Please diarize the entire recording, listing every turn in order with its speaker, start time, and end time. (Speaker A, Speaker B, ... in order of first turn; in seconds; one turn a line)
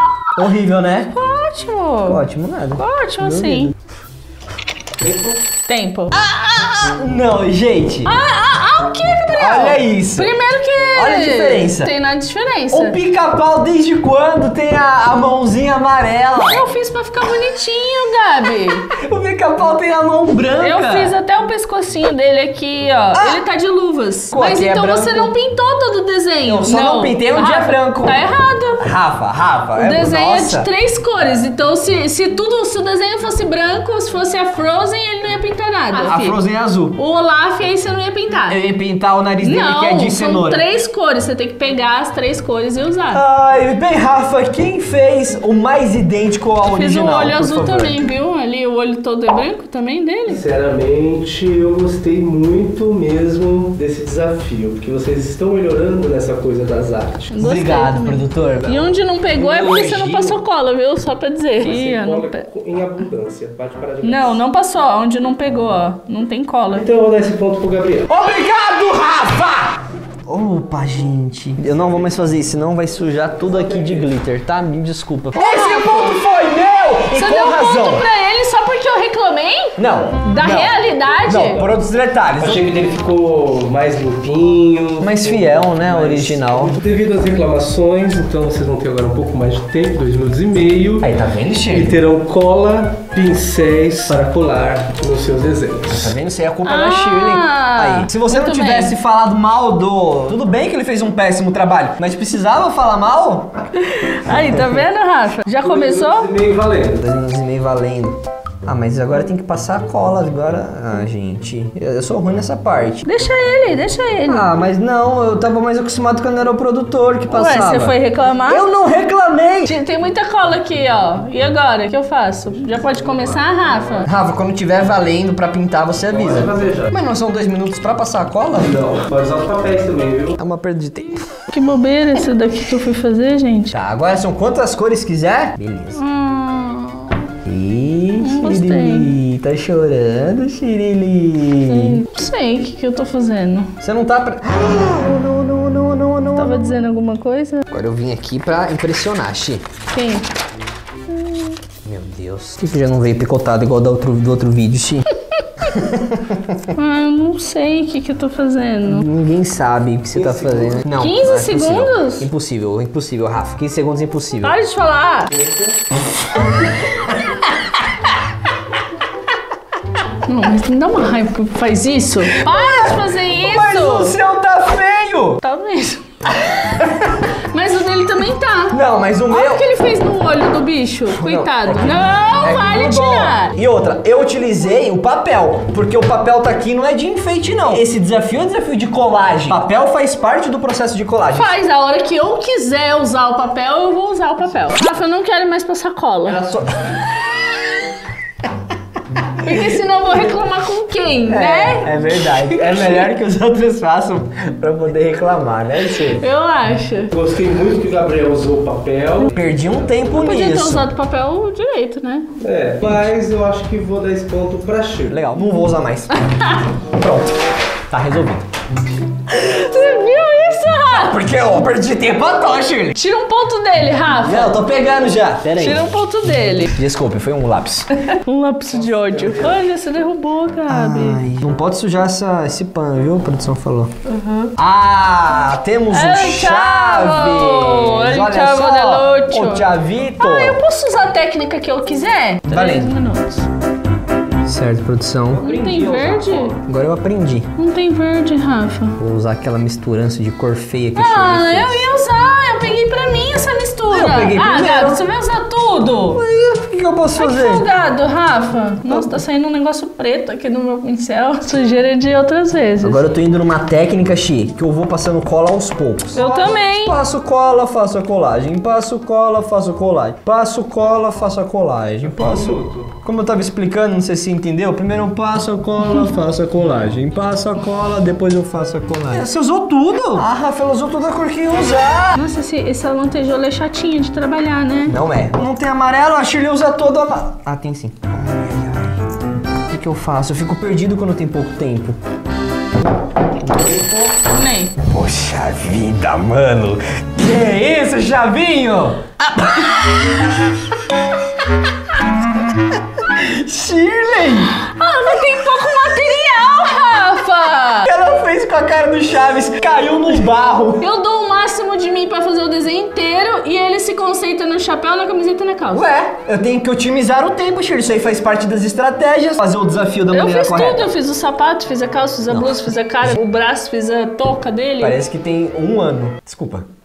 Speaker A: 0.3-1.1
Speaker B: 1.1-2.2
Speaker A: 2.0-3.7
Speaker B: 2.8-3.7
Speaker C: 5.0-5.4
Speaker B: 5.7-6.2
Speaker A: 6.1-8.2
Speaker B: 8.1-13.0
Speaker A: 9.3-10.3
Speaker A: 10.9-11.9
Speaker A: 12.7-16.7
Speaker B: 16.4-18.9
Speaker A: 18.9-21.1
Speaker B: 20.6-28.9
Speaker A: 23.1-23.4
Speaker A: 24.3-25.3
Speaker A: 26.4-28.2
Speaker A: 28.8-30.7
Speaker B: 29.8-36.4
Speaker A: 35.9-37.0
Speaker B: 37.0-38.6
Speaker A: 38.5-40.7
Speaker B: 39.4-43.2
Speaker A: 43.1-48.0
Speaker B: 46.7-50.5
Speaker C: 50.3-57.3
Speaker B: 57.3-62.5
Speaker A: 57.4-58.9
Speaker C: 59.4-60.4
Speaker C: 61.6-64.4
Speaker B: 64.0-66.9
Speaker C: 66.7-68.1
Speaker A: 68.1-78.1
Speaker C: 71.6-72.2
Speaker C: 73.3-74.1
Speaker B: 75.3-76.2
Speaker B: 77.1-81.7
Speaker A: 79.8-82.6
Speaker C: 82.4-91.1
Speaker A: 85.0-86.8
Speaker A: 91.0-92.0
Speaker C: 91.7-96.1
Speaker A: 95.9-103.5
Speaker B: 96.6-99.0
Speaker B: 103.8-106.3
Speaker C: 105.6-107.1
Speaker A: 107.0-113.1
Speaker B: 113.0-114.5
Speaker A: 114.2-119.7
Speaker B: 117.3-118.7
Speaker B: 119.7-124.1
Speaker C: 122.5-124.1
Speaker A: 124.0-128.8
Speaker C: 126.1-126.9
Speaker C: 128.6-130.4
Speaker A: 130.4-131.3
Speaker B: 131.5-133.7
Speaker A: 133.7-136.0
Speaker B: 136.0-137.3
Speaker A: 137.4-142.0
Speaker B: 138.2-139.2
Speaker B: 141.7-143.7
Speaker A: 143.8-146.6
Speaker B: 146.3-147.6
Speaker A: 147.7-149.6
Speaker B: 149.9-150.3
Speaker A: 151.8-155.1
Speaker A: 155.6-156.6
Speaker B: 156.7-159.1
Speaker A: 158.8-164.6
Speaker C: 160.1-160.9
Speaker B: 160.9-162.3
Speaker B: 164.4-165.3
Speaker C: 165.3-165.8
Speaker B: 170.3-174.2
Speaker A: 172.3-175.4
Speaker B: 175.4-176.6
Speaker B: 177.5-183.6
Speaker A: 178.7-179.7
Speaker A: 181.1-191.6
Speaker B: 191.3-196.4
Speaker A: 196.2-197.2
Speaker B: 199.4-202.9
Speaker A: 201.3-206.2
Speaker B: 205.9-207.1
Speaker C: 207.1-209.3
Speaker A: 209.2-210.9
Speaker B: 210.1-212.3
Speaker C: 212.4-215.2
Speaker A: 215.1-216.2
Speaker B: 216.2-216.6
Speaker A: 216.8-218.4
Speaker B: 219.3-221.2
Speaker A: 220.8-223.0
Speaker B: 222.9-224.7
Speaker A: 224.2-225.8
Speaker B: 225.5-226.8
Speaker A: 226.7-227.9
Speaker B: 228.0-231.2
Speaker C: 228.7-229.8
Speaker A: 230.7-233.9
Speaker B: 234.1-234.5
Speaker A: 234.6-240.6
Speaker B: 235.9-243.5
Speaker A: 242.5-242.9
Speaker A: 244.4-245.6
Speaker C: 245.4-246.6
Speaker B: 245.4-246.6
Speaker A: 246.6-247.5
Speaker B: 247.6-249.0
Speaker A: 249.0-251.9
Speaker B: 251.0-256.2
Speaker A: 253.9-255.0
Speaker A: 256.0-257.7
Speaker B: 257.2-263.1
Speaker A: 258.9-259.2
Speaker A: 262.8-282.2
Speaker B: 266.1-267.0
Speaker C: 272.0-272.9
Speaker B: 282.1-285.0
Speaker A: 284.9-289.1
Speaker A: 289.7-292.0
Speaker A: 293.4-294.1
Speaker B: 294.3-294.8
Speaker A: 294.8-300.3
Speaker A: 303.0-304.6
Speaker B: 304.6-307.9
Speaker A: 307.8-310.9
Speaker B: 310.8-315.9
Speaker A: 315.7-320.9
Speaker B: 320.1-325.0
Speaker A: 322.3-323.2
Speaker A: 324.8-326.7